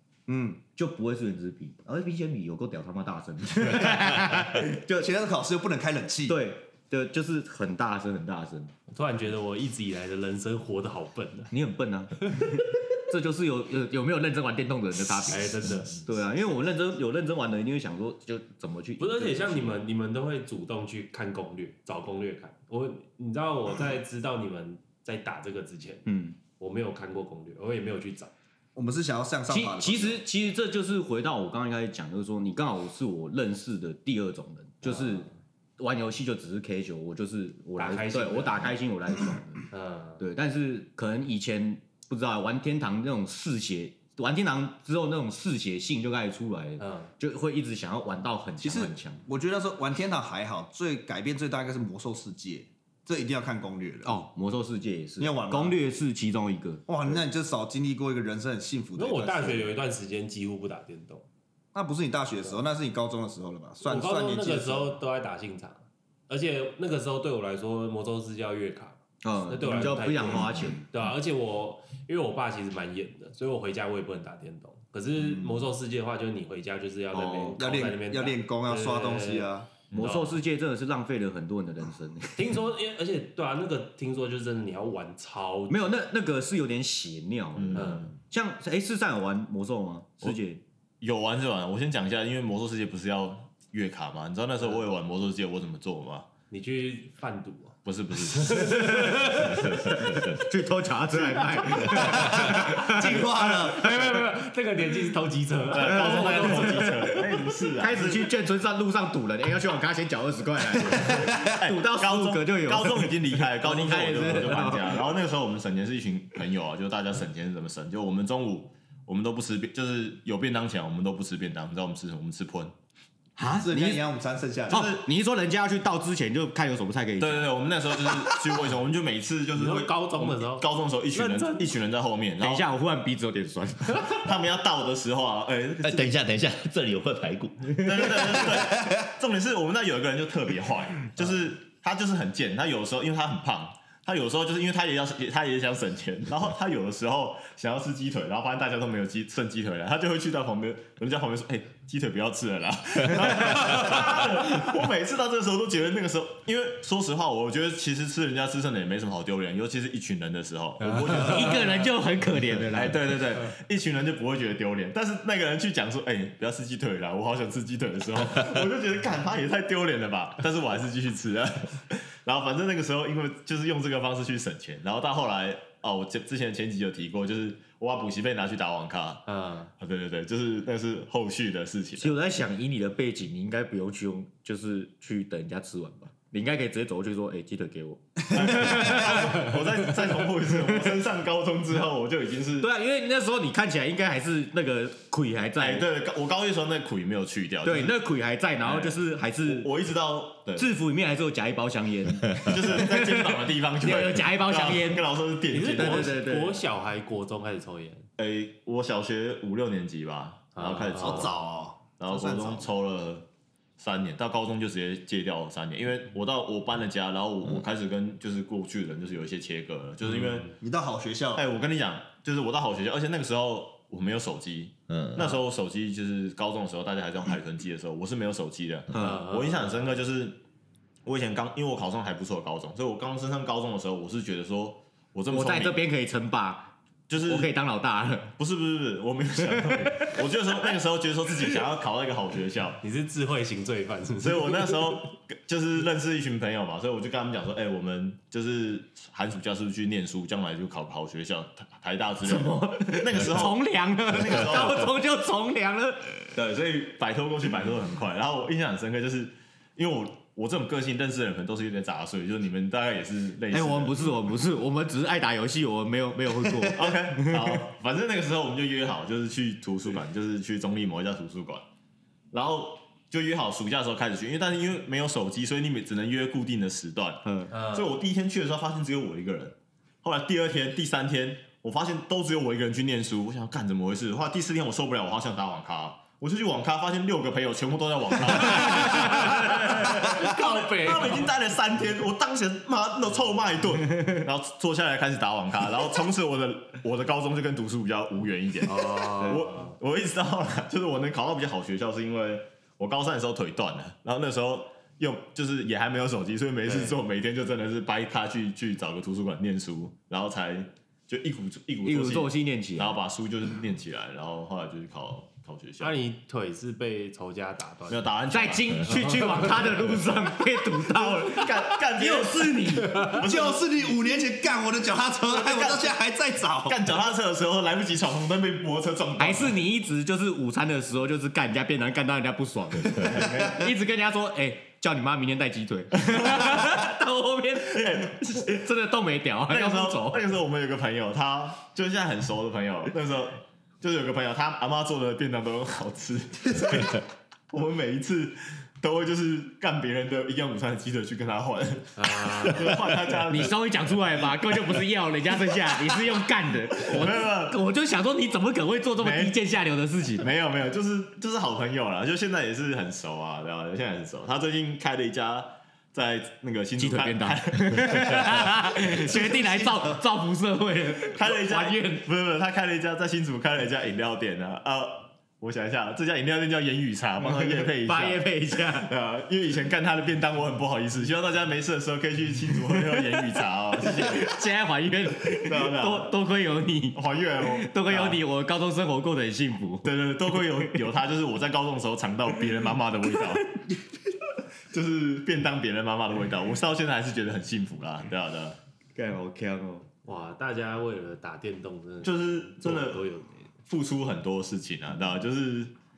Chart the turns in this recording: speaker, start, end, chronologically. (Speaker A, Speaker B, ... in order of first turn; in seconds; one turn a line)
Speaker A: 0.3-0.6
Speaker B: 0.7-4.8
Speaker A: 3.8-6.4
Speaker B: 6.3-8.7
Speaker C: 8.9-11.5
Speaker B: 11.5-19.8
Speaker C: 15.2-16.1
Speaker C: 19.0-26.1
Speaker B: 26.1-26.4
Speaker C: 26.6-28.3
Speaker A: 28.7-30.2
Speaker B: 29.5-39.6
Speaker C: 34.8-35.3
Speaker C: 37.8-38.8
Speaker C: 39.7-40.2
Speaker B: 40.2-49.2
Speaker C: 46.8-47.1
Speaker A: 48.6-54.1
Speaker B: 54.0-56.9
Speaker A: 55.2-55.8
Speaker A: 56.9-59.7
Speaker C: 59.0-61.2
Speaker A: 61.7-65.0
Speaker C: 63.8-69.0
Speaker B: 69.2-70.9
Speaker C: 69.5-80.4
Speaker A: 70.2-70.7
Speaker A: 75.2-75.6
Speaker B: 77.1-77.6
Speaker A: 77.6-79.7
Speaker B: 79.9-82.4
Speaker C: 82.4-85.9
Speaker B: 85.7-90.6
Speaker D: 87.5-88.2
Speaker C: 87.7-88.1
Speaker D: 91.0-96.3
Speaker C: 96.5-99.9
Speaker D: 97.8-99.3
Speaker B: 98.5-99.2
Speaker E: 99.7-100.3
Speaker B: 99.7-104.2
Speaker A: 101.9-104.0
Speaker C: 102.1-107.3
Speaker D: 105.7-108.3
Speaker B: 105.8-115.0
Speaker A: 110.8-111.4
Speaker D: 111.3-122.7
Speaker B: 123.4-124.0
Speaker A: 123.5-124.9
Speaker B: 124.7-127.6
Speaker D: 124.7-125.0
Speaker D: 127.2-132.7
Speaker C: 129.5-131.7
Speaker B: 132.4-134.2
Speaker D: 134.1-136.2
Speaker E: 135.8-138.1
Speaker B: 137.7-138.1
Speaker D: 137.8-161.9
Speaker C: 160.8-161.8
Speaker B: 161.1-163.1
Speaker D: 162.7-179.2
Speaker C: 179.2-179.7
Speaker D: 179.8-182.1
Speaker B: 182.0-189.2
Speaker D: 188.3-192.7
Speaker B: 192.6-195.9
Speaker D: 195.6-198.0
Speaker B: 197.6-199.7
Speaker D: 198.6-200.7
Speaker B: 200.6-206.6
Speaker D: 202.4-206.2
Speaker C: 205.5-208.1
Speaker D: 208.2-211.4
Speaker C: 210.6-211.3
Speaker A: 211.0-212.7
Speaker D: 212.0-213.3
Speaker D: 213.8-220.6
Speaker C: 220.0-220.5
Speaker A: 220.6-221.4
Speaker D: 221.3-230.4
Speaker E: 224.9-225.3
Speaker B: 228.9-229.2
Speaker C: 228.9-229.9
Speaker D: 231.0-235.8
Speaker B: 235.3-238.3
Speaker D: 237.1-237.5
Speaker D: 238.4-242.8
Speaker B: 239.5-240.1
Speaker C: 242.8-245.0
Speaker D: 244.2-254.9
Speaker B: 252.2-256.4
Speaker D: 256.3-264.1
Speaker B: 263.5-267.6
Speaker D: 266.7-271.6
Speaker D: 272.3-315.9
Speaker B: 277.2-277.5
Speaker C: 277.5-278.0
Speaker C: 288.5-291.3
Speaker B: 288.9-289.3
Speaker C: 298.6-299.7
Speaker B: 311.8-312.9
Speaker C: 315.8-318.1
Speaker D: 317.9-319.6
Speaker B: 318.3-323.2
Speaker C: 318.8-319.6
Speaker D: 320.9-323.7
Speaker A: 323.1-326.9
Speaker D: 325.3-325.9
Speaker D: 326.6-329.6
Speaker B: 329.2-340.3
Speaker D: 333.0-333.7
Speaker D: 336.1-336.5
Speaker D: 337.7-338.5
Speaker D: 339.5-353.6
Speaker C: 351.9-352.8
Speaker B: 353.3-360.2
Speaker D: 356.8-357.6
Speaker D: 359.0-359.3
Speaker D: 360.2-369.2
Speaker B: 366.8-372.1
Speaker A: 369.2-369.9
Speaker D: 371.1-384.4
Speaker B: 377.2-378.9
Speaker B: 382.7-383.2
Speaker B: 383.9-390.8
Speaker D: 385.3-386.1
Speaker D: 386.9-388.2
Speaker D: 389.8-393.6
Speaker D: 394.7-398.6
Speaker B: 398.9-399.9
Speaker C: 400.0-403.5
Speaker D: 402.0-403.0
Speaker D: 403.7-405.7